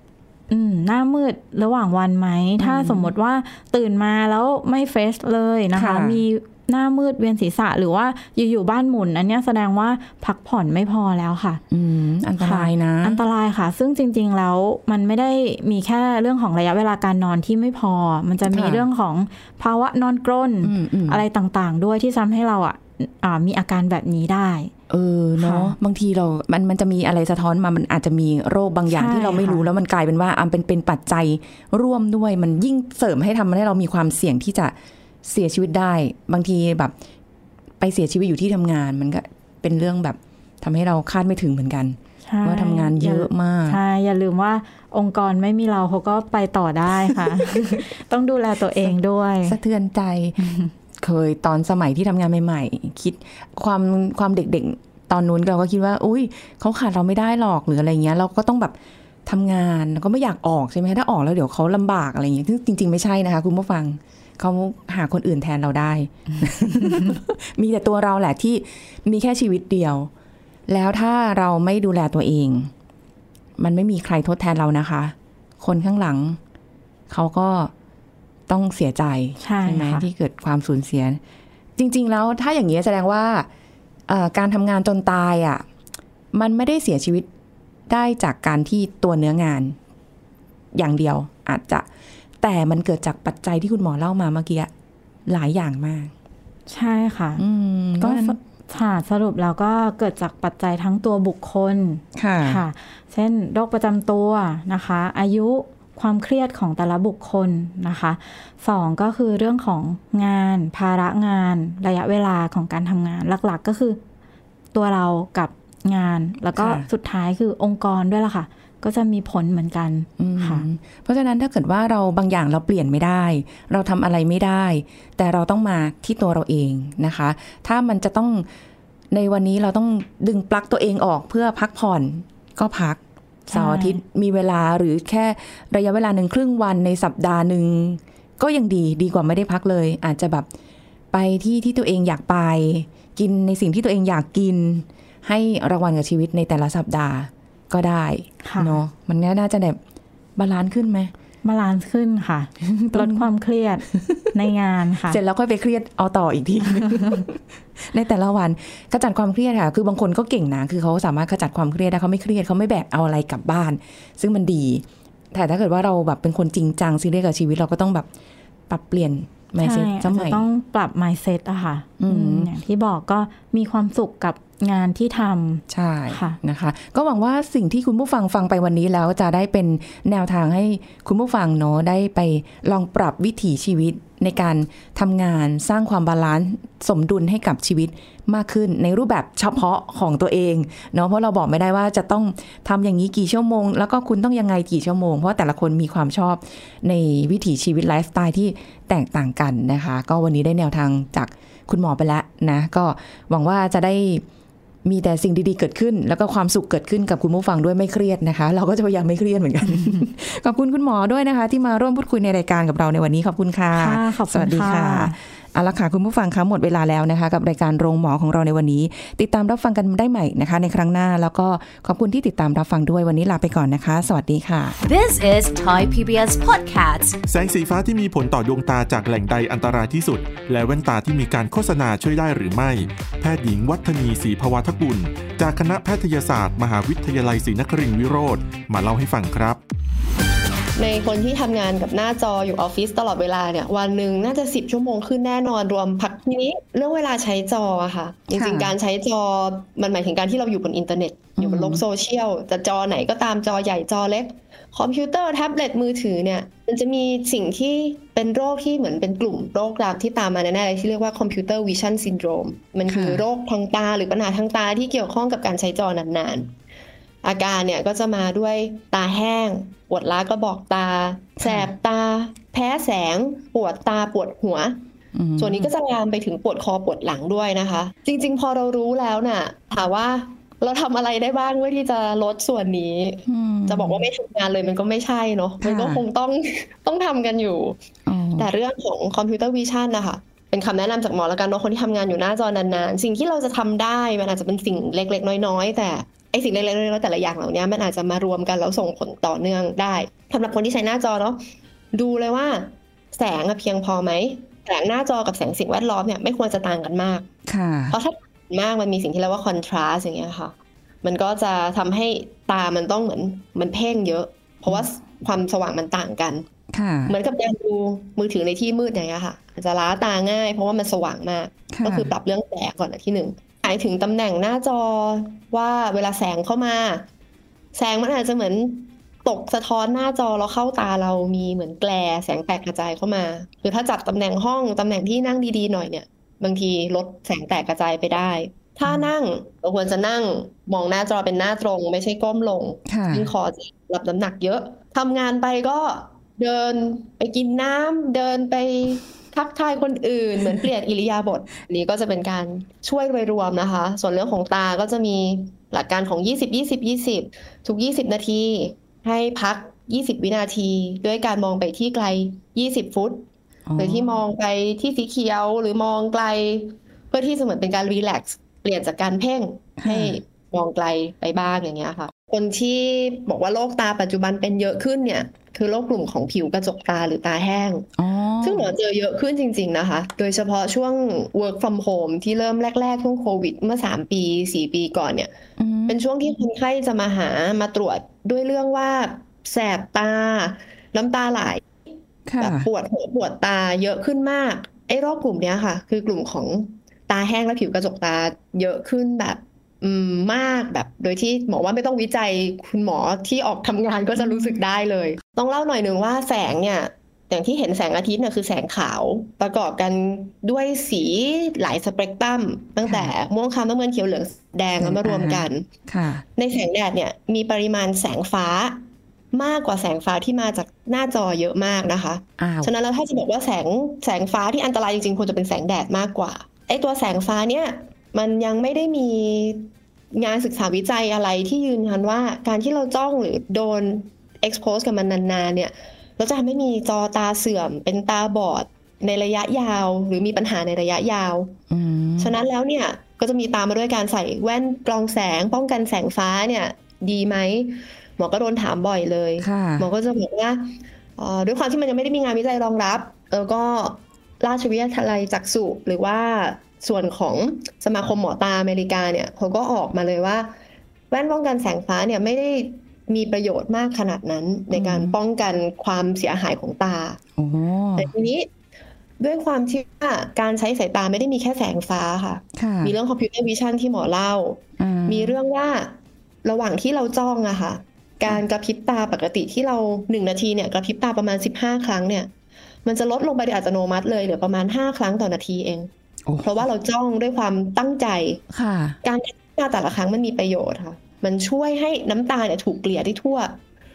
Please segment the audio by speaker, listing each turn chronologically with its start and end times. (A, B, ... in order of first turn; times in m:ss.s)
0:00.5-0:11.6 A
0:02.6-0:03.1 B
0:05.8-0:06.2 B
0:11.7-0:13.2 B
0:12.4-0:24.7 A
0:18.5-0:18.8 B
0:20.6-0:21.2 B
0:24.9-0:34.7 B
0:25.4-0:25.7 A
0:28.9-0:29.6 A
0:35.2-0:36.9 B
0:37.8-0:43.8 B
0:42.2-0:49.6 A
0:47.2-0:47.8 B
0:49.4-0:50.4 B
0:50.4-0:50.7 A
0:51.0-0:58.7 B
0:59.2-1:10.1 B
1:10.7-1:12.7 B
1:13.6-1:16.4 B
1:17.1-1:17.7 B
1:18.5-1:21.2 B
1:19.4-1:20.0 A
1:21.8-1:23.5 B
1:24.1-1:25.6 B
1:26.3-1:27.3 B
1:27.9-1:29.8 B
1:30.7-1:31.9 B
1:32.4-1:34.7 B
1:35.3-1:36.1 B
1:36.7-1:37.4 A
1:37.4-1:38.4 B
1:38.0-1:54.0 A
1:42.1-1:42.6 B
1:54.7-2:00.6 A
1:56.5-1:56.8 B
2:00.2-2:08.4 B
2:09.1-2:20.5 B
2:13.5-2:14.0 A
2:21.1-2:29.8 B
2:28.4-2:28.8 A
2:30.4-2:31.1 B
2:31.4-2:35.2 A
2:32.6-2:33.3 B
2:33.9-2:34.2 B
2:35.1-2:48.1 B
2:36.8-2:37.2 A
2:48.7-2:50.4 B
2:49.6-2:56.4 A
2:52.0-2:52.5 B
2:55.7-3:24.2 B
3:24.8-3:44.8 B
3:33.7-3:35.2 A
3:44.8-3:47.2 C
3:47.3-3:59.6 D
4:00.8-4:26.6 E
4:08.3-4:08.7 B
4:11.4-4:11.8 B
4:22.8-4:23.2 B
4:27.2-4:34.8 E
4:31.4-4:31.7 B
4:35.1-4:35.7 B
4:35.4-4:47.8 E
4:43.3-4:44.1 B
4:45.6-4:46.0 B
4:48.0-4:48.5 B
4:48.4-5:01.4 E
5:01.9-5:07.3 E
5:07.4-5:08.0 B
5:07.9-5:16.4 E
5:16.7-5:17.1 B
5:17.1-5:27.0 E
5:21.7-5:22.1 B
5:27.7-6:03.2 E
5:38.8-5:39.1 B
5:42.9-5:43.3 B
6:03.7-6:04.2 B
6:03.8-6:17.9 E
6:09.8-6:10.2 B
6:18.0-6:18.8 B
6:18.4-6:25.3 E
6:25.6-6:26.0 B
6:25.9-6:31.6 E
6:32.3-6:32.7 B
6:32.4-6:55.6 E
6:44.2-6:44.6 B
6:52.8-6:53.1 B
6:54.8-6:56.2 B
6:56.4-6:58.8 E
6:59.3-7:21.5 E
7:02.4-7:02.7 B
7:21.7-7:22.3 B
7:22.2-7:40.5 E
7:29.4-7:29.9 B
7:41.1-7:47.2 E
7:44.7-7:45.2 B
7:47.4-7:48.1 B
7:48.0-7:48.5 E
7:49.2-8:02.3 E
7:52.5-7:52.9 B
7:54.8-7:55.4 B
8:02.8-8:05.9 E
8:06.2-8:06.7 B
8:06.4-8:08.4 E
8:08.5-8:09.0 B
8:09.0-8:13.6 E